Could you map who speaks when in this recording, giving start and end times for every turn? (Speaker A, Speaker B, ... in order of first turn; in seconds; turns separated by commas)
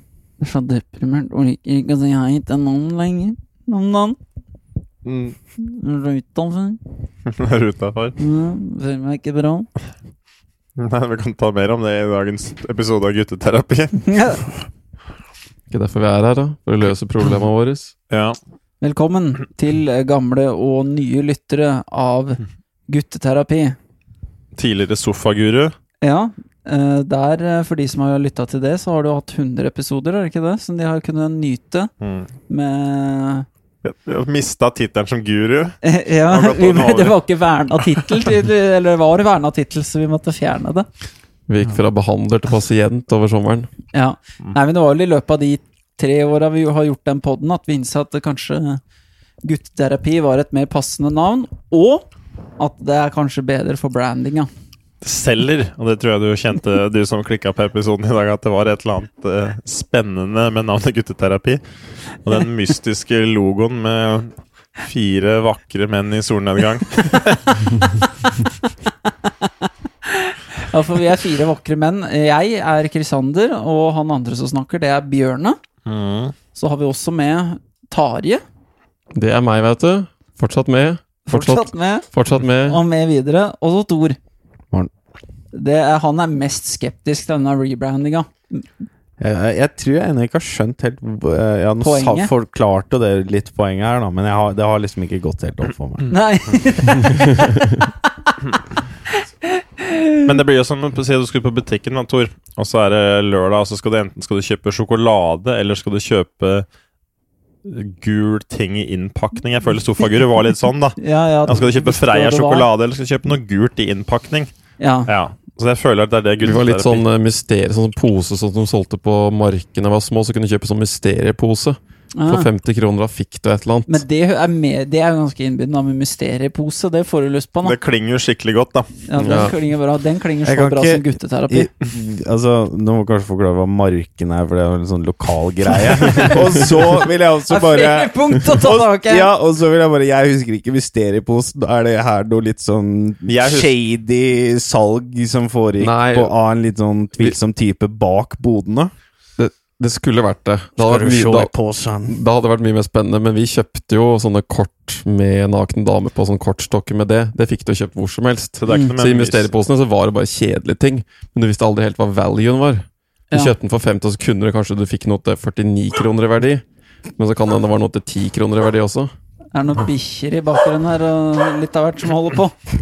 Speaker A: 0.4-4.2, Speaker B: 5.0-5.3, Speaker A: 5.6-6.8, Speaker B: 7.2-8.2, Speaker A: 8.2-9.7, Speaker B: 10.8-14.1, Speaker A: 14.0-14.4, Speaker C: 15.7-17.9, Speaker B: 18.1-18.4, Speaker A: 18.8-23.8, Speaker B: 24.6-25.7, Speaker A: 26.0-31.9, Speaker B: 32.0-32.3, Speaker A: 32.5-33.5, Speaker B: 33.8-37.2, Speaker A: 35.8-40.9, Speaker C: 41.5-43.7, Speaker A: 43.9-48.8, Speaker A: 49.4-52.0, Speaker A: 52.6-54.5, Speaker B: 55.0-61.6, Speaker B: 62.2-67.9, Speaker A: 69.1-75.6, Speaker B: 75.8-76.3, Speaker A: 76.5-78.4, Speaker C: 79.1-82.8, Speaker A: 81.2-82.0, Speaker A: 82.6-84.2, Speaker A: 85.5-88.7, Speaker D: 89.2-96.2, Speaker A: 91.8-92.3, Speaker A: 96.1-98.3, Speaker A: 99.1-100.3, Speaker B: 100.2-106.7, Speaker B: 107.6-114.5, Speaker A: 111.0-112.7, Speaker A: 114.8-115.1, Speaker B: 115.0-117.0, Speaker C: 116.4-124.0, Speaker A: 122.1-122.5, Speaker A: 123.9-127.8, Speaker B: 127.6-128.9, Speaker A: 129.1-131.7, Speaker C: 129.2-129.5, Speaker D: 130.4-148.9, Speaker A: 137.5-139.3, Speaker B: 143.3-143.7, Speaker C: 145.8-146.3, Speaker C: 149.4-151.5, Speaker D: 150.8-152.2, Speaker C: 152.1-166.6, Speaker B: 158.6-159.5, Speaker C: 167.2-169.1, Speaker A: 169.5-172.6